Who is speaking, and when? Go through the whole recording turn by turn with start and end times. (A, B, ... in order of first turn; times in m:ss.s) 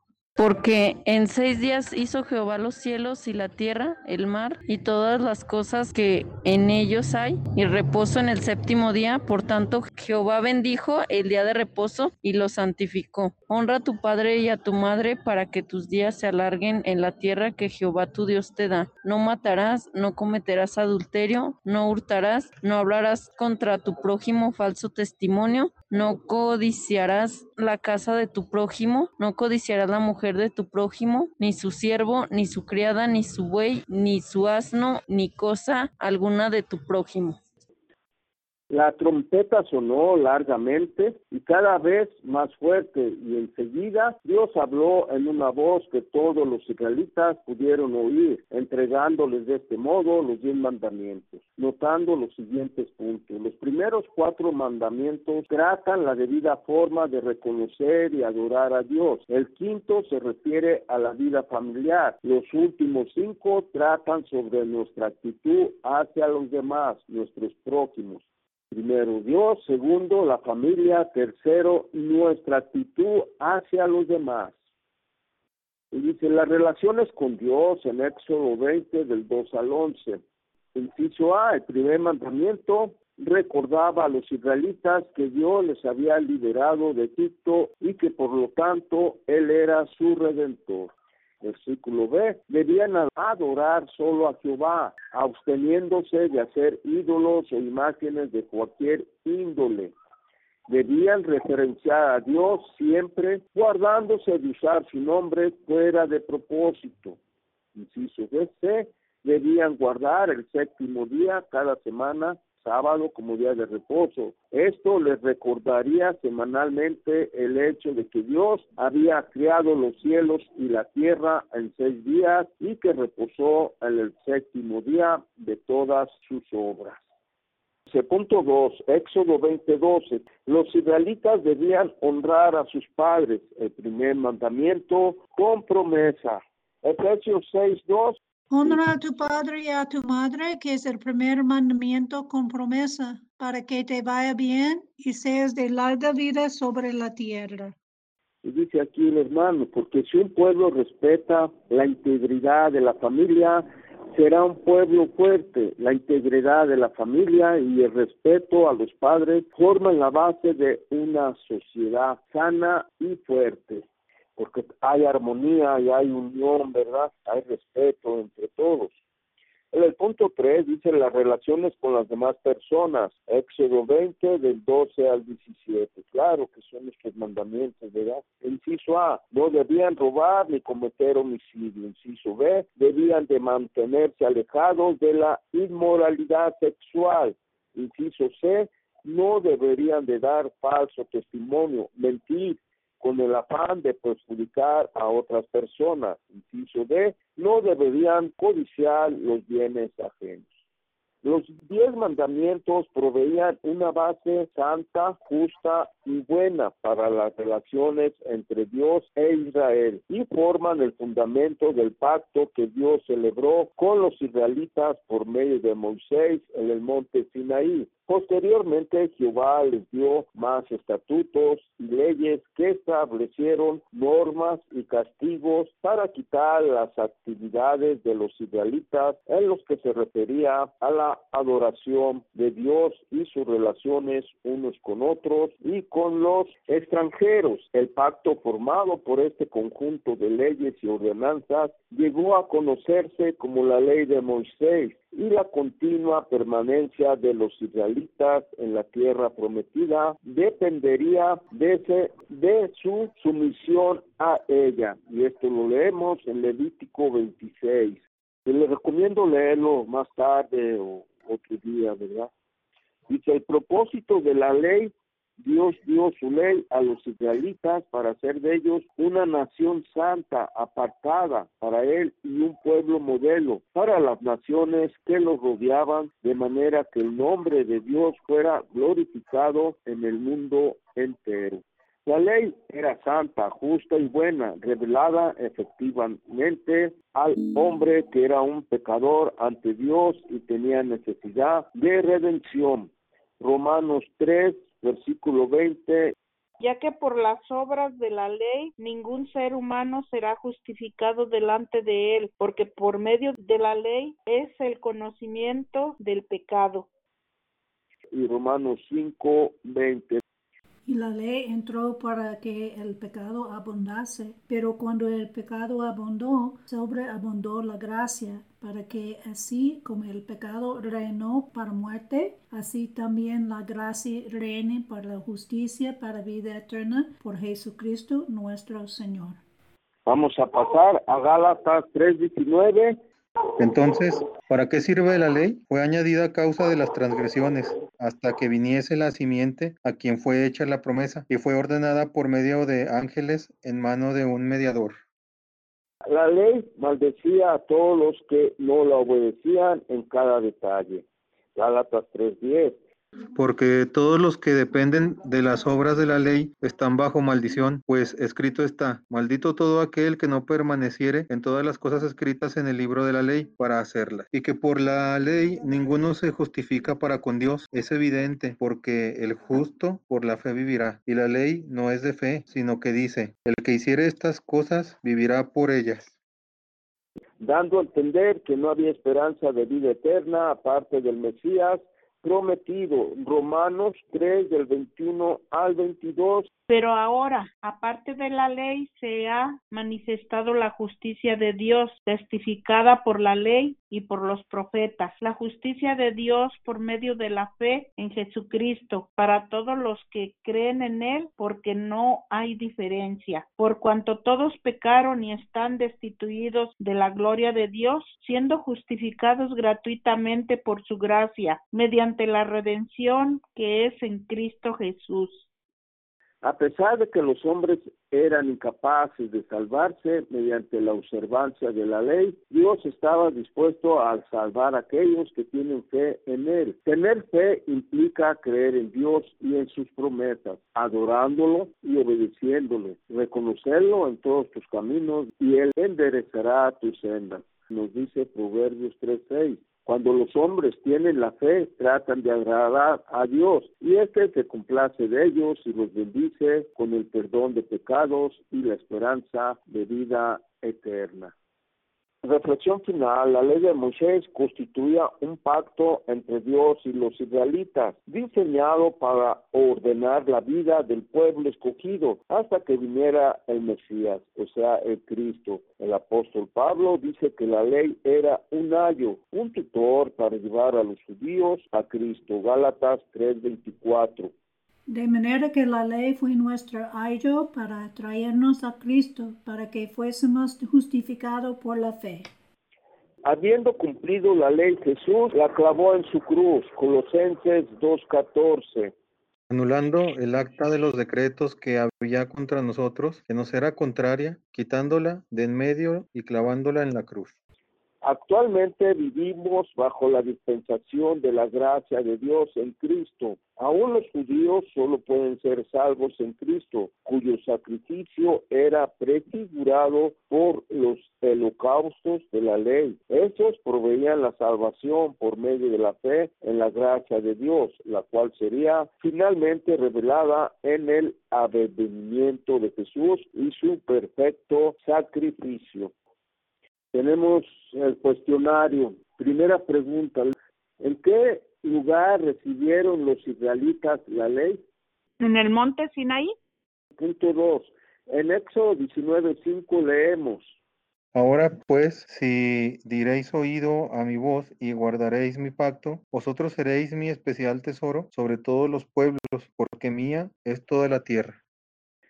0:00.4-0:37.4 A
0:38.7-1:14.5 B
1:15.9-1:20.2 B
1:20.7-1:39.9 B
1:40.7-1:47.2 B
1:47.7-2:07.0 B
2:07.9-2:18.8 B
2:18.5-2:27.7 C
2:28.4-2:43.8 B
2:44.4-2:48.9 B
2:49.7-3:20.5 B
3:21.2-4:22.3 B
4:23.1-4:56.1 B
4:56.6-5:06.8 D
5:08.1-5:10.2 B
5:10.9-5:29.4 C
5:30.0-5:33.0 B
5:33.6-5:45.0 E
5:46.1-5:51.0 B
5:51.6-5:52.8 B
5:53.3-6:16.1 E
6:17.4-6:26.5 B
6:26.7-6:55.4 D
6:56.4-7:31.3 B
7:32.2-7:54.3 B
7:54.9-8:02.3 C
8:03.2-8:08.9 B
8:09.5-8:17.3 E
8:18.0-8:45.9 B
8:46.9-8:54.6 B
8:55.2-8:56.3 D
8:57.0-9:00.5 B
9:01.1-9:11.4 E